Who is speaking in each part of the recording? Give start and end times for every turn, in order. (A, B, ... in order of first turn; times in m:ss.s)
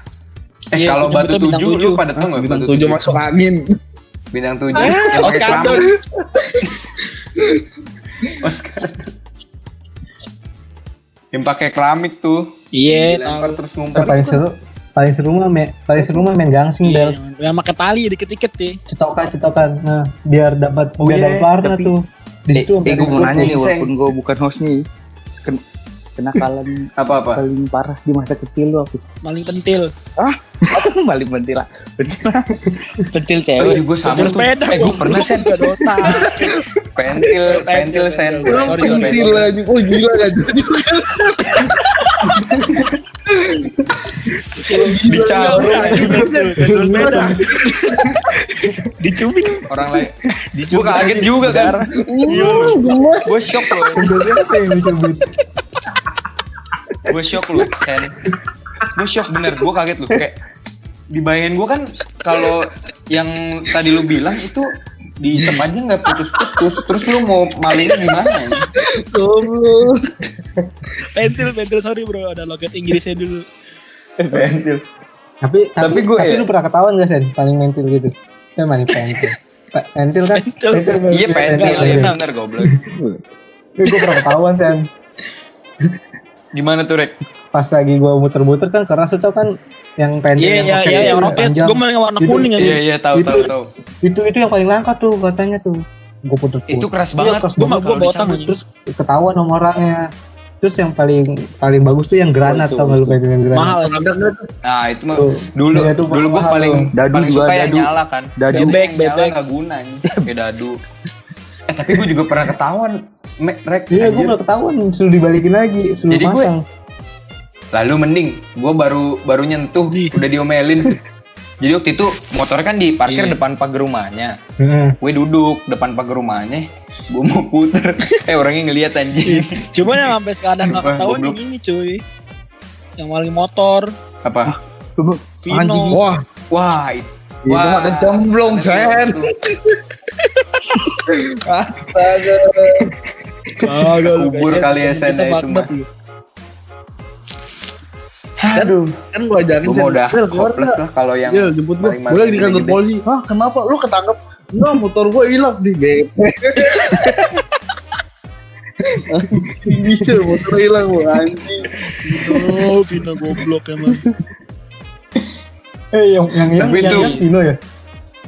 0:00.7-0:03.2 A
0:00.7-0:02.0 B
0:02.2-0:03.6 C
0:04.3-0:05.9 A
0:04.7-0:05.9 B
0:04.7-0:06.7 C
0:08.2-0:09.1 A
0:11.3-0:14.4 A
0:12.7-0:13.6 B
0:13.9-0:17.2 D
0:16.8-0:18.8 B
0:18.9-0:23.6 D
0:21.0-0:21.6 A
0:21.6-0:21.9 E
0:22.5-0:24.8 E
0:22.8-0:23.9 A
0:26.2-0:29.0 E
0:27.0-0:27.4 A
0:29.2-0:29.9 B
0:30.2-0:34.2 E
0:33.6-0:36.3 A
0:34.0-0:36.6 B
0:36.9-0:39.5 A
0:37.3-0:39.5 B
0:38.4-0:41.8 C
0:42.5-0:42.9 D
0:43.3-0:43.7 C
0:44.6-0:48.1 C
0:45.0-0:46.3 A
0:45.2-0:49.7 B
0:46.0-0:48.2 D
0:49.7-0:50.2 A
0:50.5-0:51.9 E
0:50.7-0:54.1 A
0:52.0-0:53.3 C
0:52.3-0:52.8 B
0:53.9-0:55.3 D
0:57.1-0:58.1 A
0:58.9-1:00.4 A
1:01.1-1:08.7 A
1:08.8-1:10.3 C
1:11.1-1:13.4 B
1:14.3-1:14.8 A
1:14.3-1:14.6 E
1:15.4-1:22.8 D
1:15.8-1:16.5 A
1:20.3-1:22.2 B
1:21.1-1:22.7 A
1:23.8-1:24.9 D
1:26.5-1:27.2 A
1:27.5-1:33.5 D
1:30.4-1:32.8 B
1:30.8-1:31.3 C
1:32.5-1:33.7 A
1:34.0-1:40.1 D
1:36.7-1:37.5 A
1:37.5-1:38.6 B
1:40.6-1:43.8 D
1:42.4-1:43.2 E
1:43.5-1:44.2 B
1:43.8-1:44.5 C
1:44.6-1:50.8 A
1:45.2-1:46.9 D
1:46.9-1:48.8 E
1:48.5-1:49.3 B
1:51.7-1:54.4 A
1:53.9-1:56.6 D
1:56.1-1:56.5 A
1:57.7-2:01.0 A
1:59.9-2:00.2 B
2:01.6-2:04.4 A
2:04.6-2:05.0 D
2:05.0-2:10.1 A
2:09.2-2:12.0 B
2:10.6-2:11.4 A
2:13.0-2:13.9 B
2:14.2-2:14.5 A
2:14.4-2:16.0 E
2:15.4-2:16.0 B
2:15.9-2:16.2 C
2:16.5-2:19.3 A
2:17.4-2:19.8 C
2:21.0-2:22.9 C
2:23.6-2:25.9 B
2:24.0-2:25.7 A
2:28.4-2:29.0 A
2:28.5-2:37.2 C
2:29.6-2:32.8 A
2:39.1-2:41.7 C
2:39.4-2:40.4 D
2:42.0-2:44.1 B
2:45.9-2:47.6 D
2:46.6-2:47.2 A